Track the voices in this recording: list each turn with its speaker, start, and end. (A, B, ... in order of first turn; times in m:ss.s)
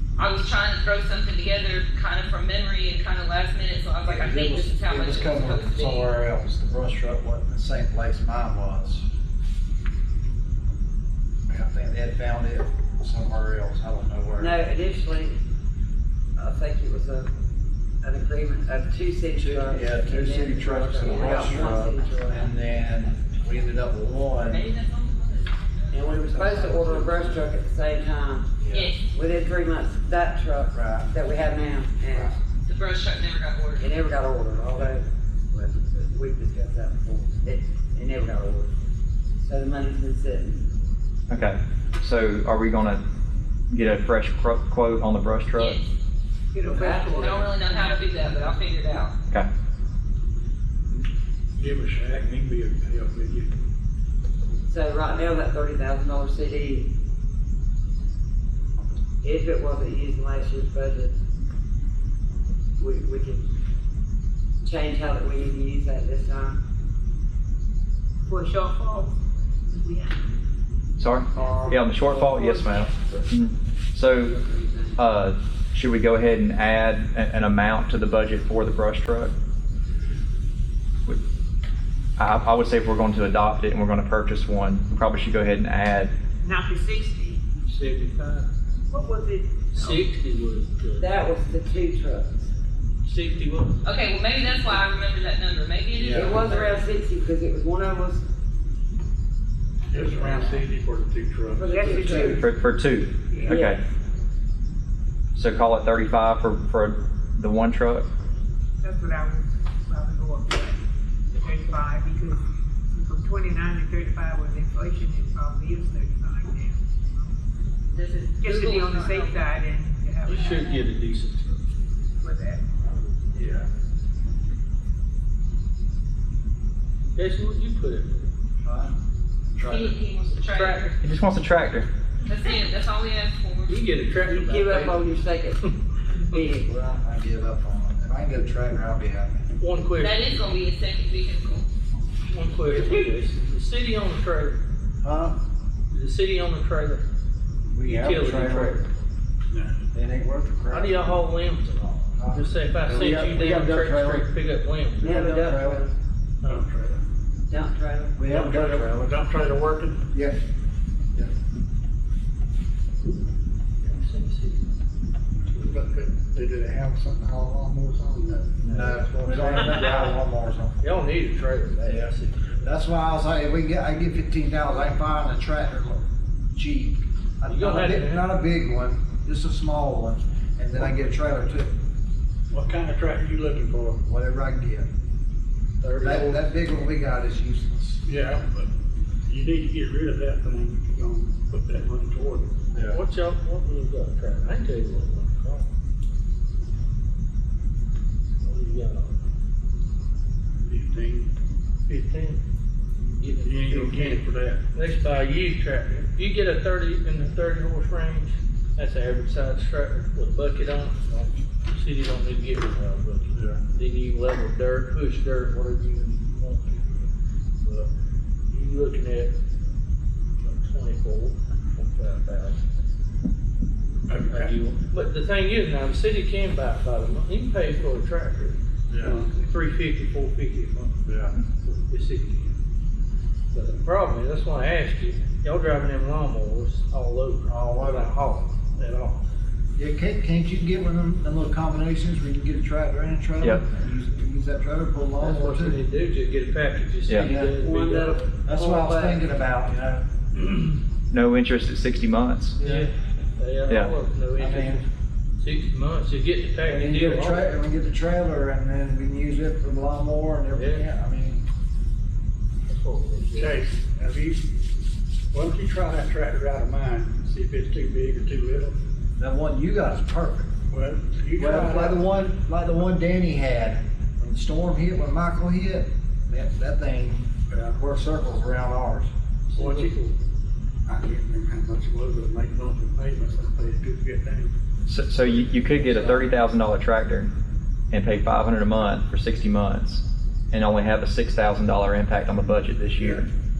0:00.2-0:06.1 A
0:04.0-0:09.0 B
0:11.5-0:14.6 B
0:14.4-0:15.4 C
0:16.4-0:17.3 C
0:18.0-0:22.6 C
0:19.3-0:24.7 B
0:21.1-0:21.6 A
0:24.4-0:26.2 A
0:25.9-0:28.5 C
0:26.1-0:27.5 B
0:28.6-0:28.9 B
0:28.7-0:29.0 A
0:29.1-0:32.3 C
0:30.7-0:31.1 B
0:32.6-0:33.9 A
0:33.8-0:38.7 C
0:39.4-0:40.6 C
0:41.3-0:43.0 D
0:43.7-0:45.8 D
0:45.6-0:45.9 A
0:46.5-0:48.7 E
0:46.6-0:47.5 C
0:47.1-0:49.1 A
0:51.6-0:53.5 F
0:54.7-0:56.9 C
0:59.2-1:01.1 C
1:02.8-1:03.4 C
1:04.6-1:06.6 C
1:08.3-1:09.1 E
1:09.7-1:10.2 E
1:11.0-1:14.4 D
1:11.4-1:13.2 C
1:12.5-1:12.8 E
1:14.2-1:15.0 C
1:15.0-1:19.3 D
1:22.2-1:26.1 D
1:26.4-1:27.4 E
1:27.6-1:28.5 G
1:28.9-1:30.0 E
1:29.7-1:31.3 G
1:31.0-1:32.5 C
1:33.0-1:33.8 G
1:33.8-1:36.8 A
1:35.9-1:36.6 B
1:36.1-1:38.2 C
1:39.9-1:42.0 F
1:40.1-1:40.5 C
1:41.5-1:42.4 C
1:41.7-1:42.6 E
1:41.8-1:42.4 B
1:42.2-1:43.8 D
1:43.3-1:43.6 E
1:43.5-1:43.9 C
1:45.3-1:48.0 D
1:48.8-1:50.8 E
1:51.3-1:57.3 E
1:57.9-1:59.4 A
1:58.4-2:00.8 E
2:00.2-2:01.8 G
2:02.2-2:02.7 E
2:03.3-2:03.6 B
2:07.1-2:08.3 G
2:08.6-2:08.9 B
2:09.5-2:10.0 B
2:09.6-2:10.9 A
2:10.5-2:11.0 G
2:11.0-2:11.9 D
2:12.2-2:13.8 A
2:13.7-2:15.3 G
2:14.2-2:16.7 C
2:16.6-2:19.5 B
2:19.6-2:20.4 G
2:20.0-2:21.7 A
2:22.3-2:24.6 G
2:25.0-2:25.4 B
2:25.9-2:27.0 G
2:27.7-2:28.8 B
2:27.8-2:28.9 G
2:29.5-2:29.8 F
2:29.9-2:31.1 B
2:30.7-2:35.3 G
2:32.1-2:34.3 B
2:32.9-2:33.2 F
2:35.0-2:35.9 B
2:35.0-2:35.9 C
2:36.4-2:37.0 F
2:37.5-2:38.2 C
2:38.1-2:39.1 B
2:38.3-2:39.0 G
2:38.4-2:40.0 F
2:40.1-2:40.4 B
2:43.8-2:44.7 G
2:45.5-2:48.8 F
2:48.6-2:50.2 G
2:48.6-2:50.8 B
2:50.8-2:52.6 G
2:52.6-3:01.8 B
2:57.5-2:58.3 G
3:02.5-3:04.0 F
3:04.0-3:04.9 B
3:05.8-3:06.5 G
3:06.0-3:08.0 B
3:08.0-3:08.7 F
3:09.2-3:12.9 F
3:12.9-3:15.7 G
3:18.4-3:19.1 G
3:20.6-3:21.3 F
3:21.9-3:22.4 G
3:23.2-3:24.2 G
3:23.4-3:24.6 F
3:24.7-3:37.1 G
3:37.6-3:37.9 G
3:38.5-3:39.3 G
3:40.4-3:42.6 G
3:44.1-3:44.6 F
3:44.3-3:48.6 G
3:48.9-3:49.2 B
3:49.0-3:49.4 F
3:49.3-3:52.6 G
3:53.5-3:59.2 G
3:57.4-3:58.1 B
3:59.8-4:05.8 B
4:05.2-4:08.3 G
4:07.2-4:07.5 B
4:07.5-4:09.2 C
4:08.4-4:10.0 B
4:10.4-4:10.7 G
4:11.1-4:12.6 D
4:12.6-4:12.9 B
4:12.6-4:17.5 G
4:14.4-4:14.8 B
4:16.6-4:21.4 B
4:20.5-4:20.8 G
4:22.7-4:23.6 G
4:23.3-4:24.4 F
4:25.3-4:28.7 F
4:29.2-4:30.5 B
4:30.7-4:32.0 F
4:31.4-4:39.1 B
4:37.5-4:37.8 F
4:39.5-4:40.1 G
4:39.5-4:40.0 F
4:40.9-4:44.5 F
4:44.9-4:47.3 D
4:45.8-4:46.2 F
4:47.9-4:53.3 D